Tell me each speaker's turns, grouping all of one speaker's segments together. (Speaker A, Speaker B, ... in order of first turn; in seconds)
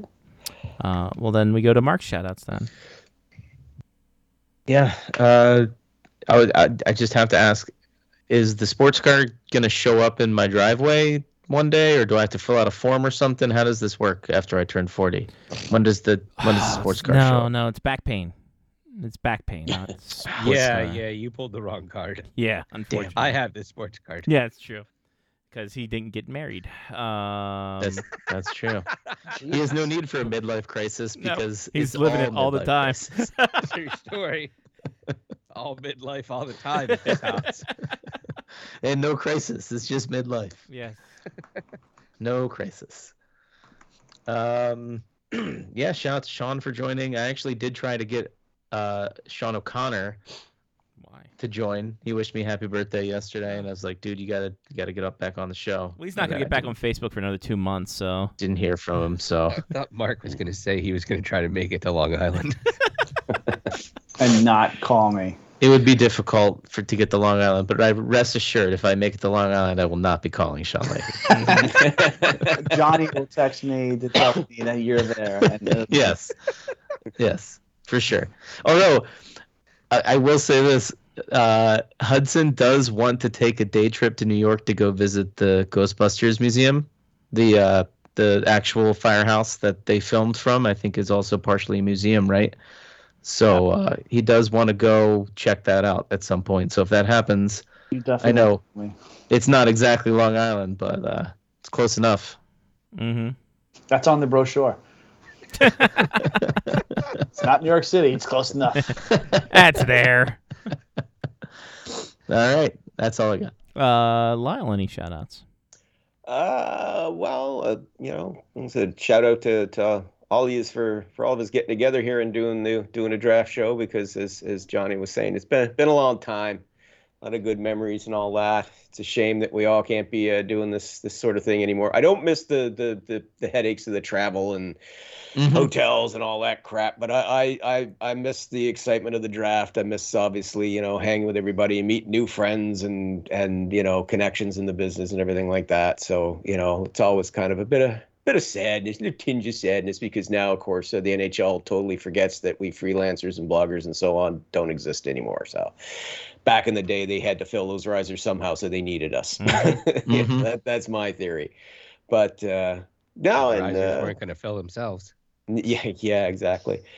Speaker A: 0.8-2.7, 16.4-18.3, 18.9-21.0, 22.3-23.4, 24.2-24.9, 25.5-28.0, 31.2-33.7, 37.1-37.9, 40.7-41.0, 51.0-51.3, 56.0-58.3, 71.3-71.7, 103.0-103.3, 105.6-106.2, 109.5-110.4, 113.8-115.4, 159.4-159.8
Speaker B: 4.7-5.7, 6.3-7.7, 8.3-17.5, 27.8-28.9, 29.5-33.2, 38.8-40.7, 42.2-43.1, 44.3-50.2, 51.4-56.6, 58.4-59.6, 65.6-71.4, 75.9-76.3, 77.2-79.1, 79.9-92.5, 93.2-97.7, 98.2-98.6, 99.3-102.4, 109.1-109.4, 112.3-113.5, 135.4-135.7, 160.1-160.5
Speaker C: 20.4-22.3, 23.0-24.3, 33.6-34.5, 35.5-37.7, 59.5-62.6, 163.4-165.1
Speaker D: 29.3-29.7, 64.2-65.4, 71.3-71.7, 72.4-76.2, 97.9-98.9, 103.9-104.8, 107.3-109.0
Speaker E: 71.6-72.7, 116.3-126.6, 127.2-134.8, 135.5-155.7, 156.4-161.5, 162.1-164.1, 165.5-166.8